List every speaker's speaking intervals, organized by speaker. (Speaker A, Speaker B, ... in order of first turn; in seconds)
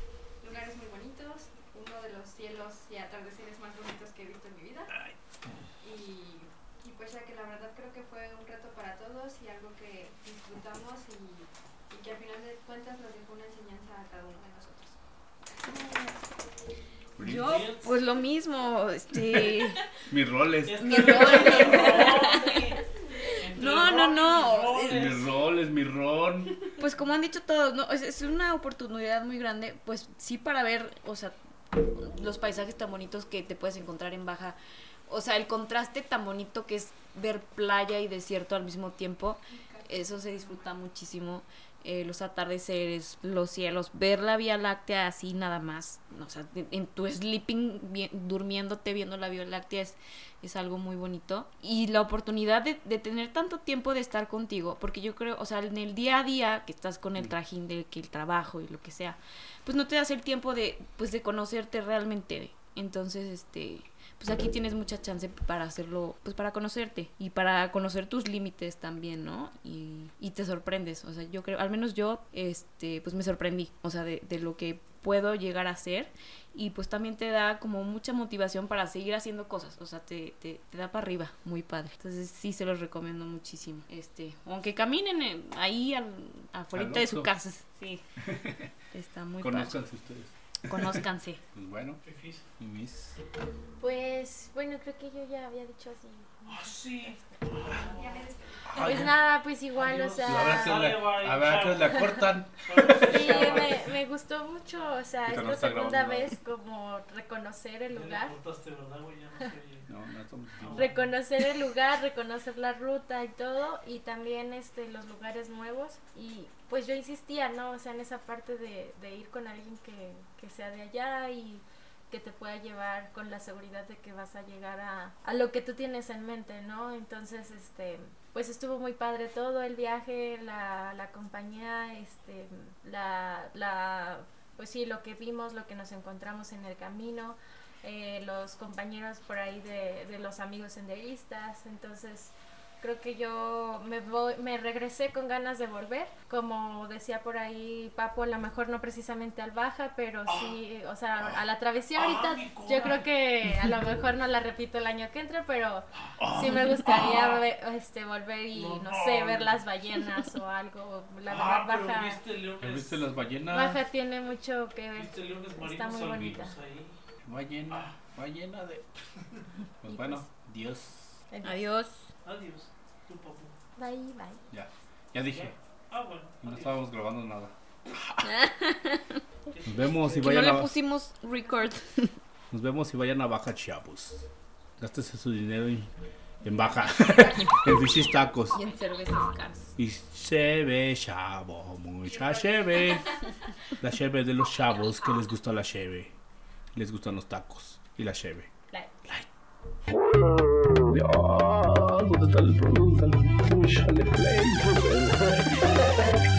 Speaker A: 0.4-4.9, 5.8-15.8, 39.5-40.7, 97.7-98.7, 192.1-193.2
Speaker B: 15.6-16.2, 17.2-19.9, 20.8-22.6, 23.4-25.0, 26.7-88.0, 88.9-89.8, 90.7-91.4, 171.4-172.1, 178.2-179.2, 180.2-182.2, 188.5-189.7
Speaker C: 17.2-17.6, 20.1-21.9, 24.9-26.6, 86.7-87.3, 88.2-88.7, 89.4-92.0, 92.6-93.2, 98.7-99.2, 100.2-103.2, 105.3-106.3, 109.9-110.9, 156.2-157.3, 162.6-163.8, 167.2-168.8, 169.8-171.2, 174.5-175.5, 176.4-178.3, 179.6-180.7, 182.5-184.3, 184.8-185.9, 186.4-188.6, 189.8-193.2, 193.8-196.1, 196.7-198.5, 200.8-206.1
Speaker D: 17.2-18.0, 20.6-22.8, 23.4-25.3, 92.0-92.4, 96.5-98.2, 99.7-103.8, 107.9-109.9, 110.6-111.1, 151.9-153.1, 158.5-159.6, 161.3-163.1, 164.9-166.9, 172.2-173.5, 175.3-176.7, 179.5-180.6
Speaker E: 93.8-97.7, 98.7-100.8, 103.0-108.3, 110.7-162.2, 163.5-166.5, 171.3-171.6, 173.8-174.4